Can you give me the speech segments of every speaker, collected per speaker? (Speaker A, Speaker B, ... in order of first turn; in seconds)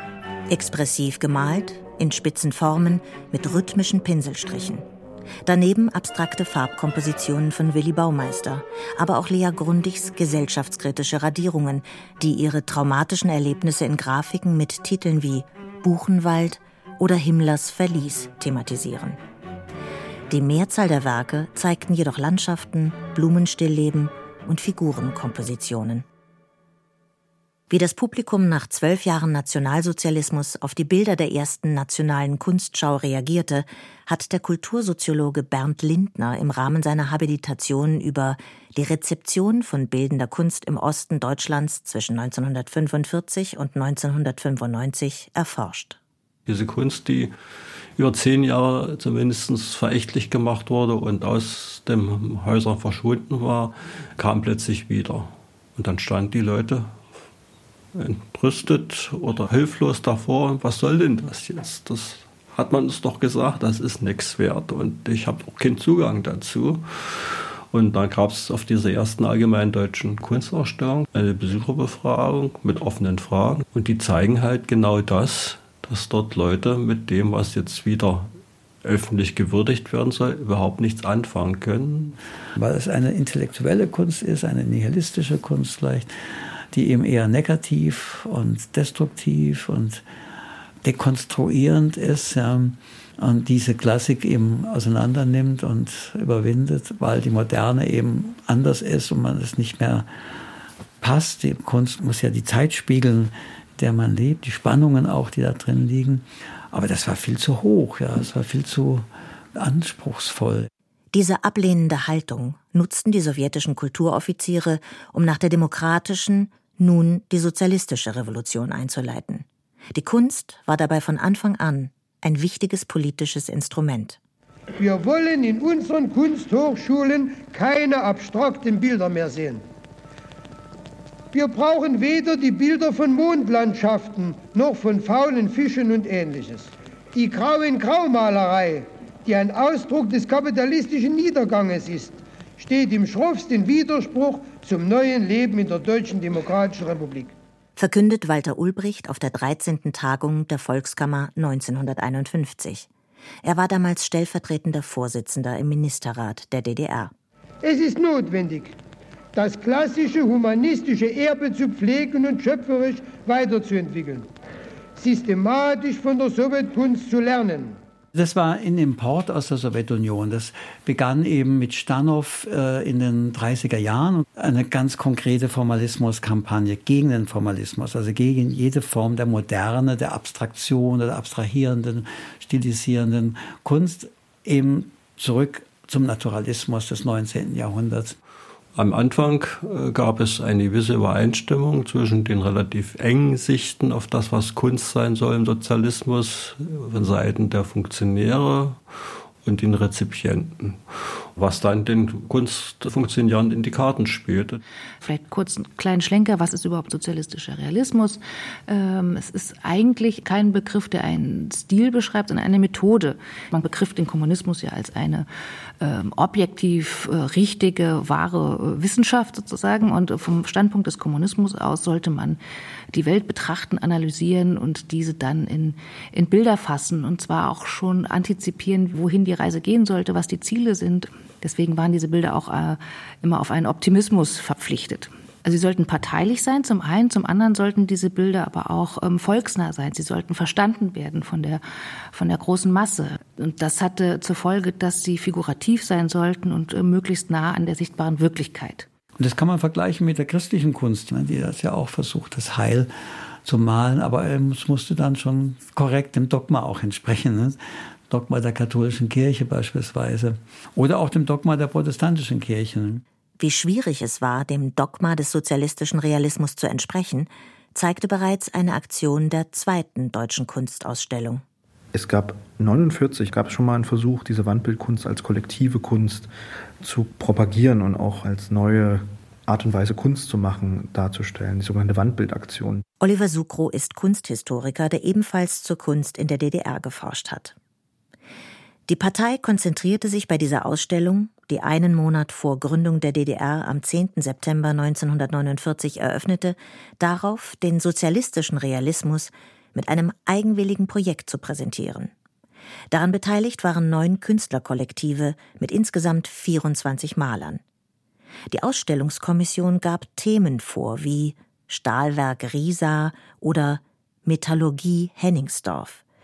Speaker A: 0.5-4.8, 5.5-19.2, 20.3-26.1, 27.7-46.0, 111.1-124.2, 147.8-152.9, 153.4-157.1, 263.4-271.4, 283.0-287.6, 288.9-302.1, 302.9-307.6, 308.5-316.0
Speaker B: 46.5-47.3, 48.0-56.9, 57.9-78.3, 78.8-82.2, 188.8-198.9, 199.4-204.6
Speaker C: 82.6-86.1, 86.7-90.0, 90.8-100.1, 101.0-110.7, 168.2-188.2, 249.2-252.9, 253.4-257.6, 258.1-263.0
Speaker D: 124.8-129.6, 131.3-147.3, 157.6-158.8, 159.3-164.3, 165.0-167.8
Speaker E: 205.0-215.3, 215.8-222.4, 222.9-241.6, 242.1-248.9
Speaker F: 271.9-282.9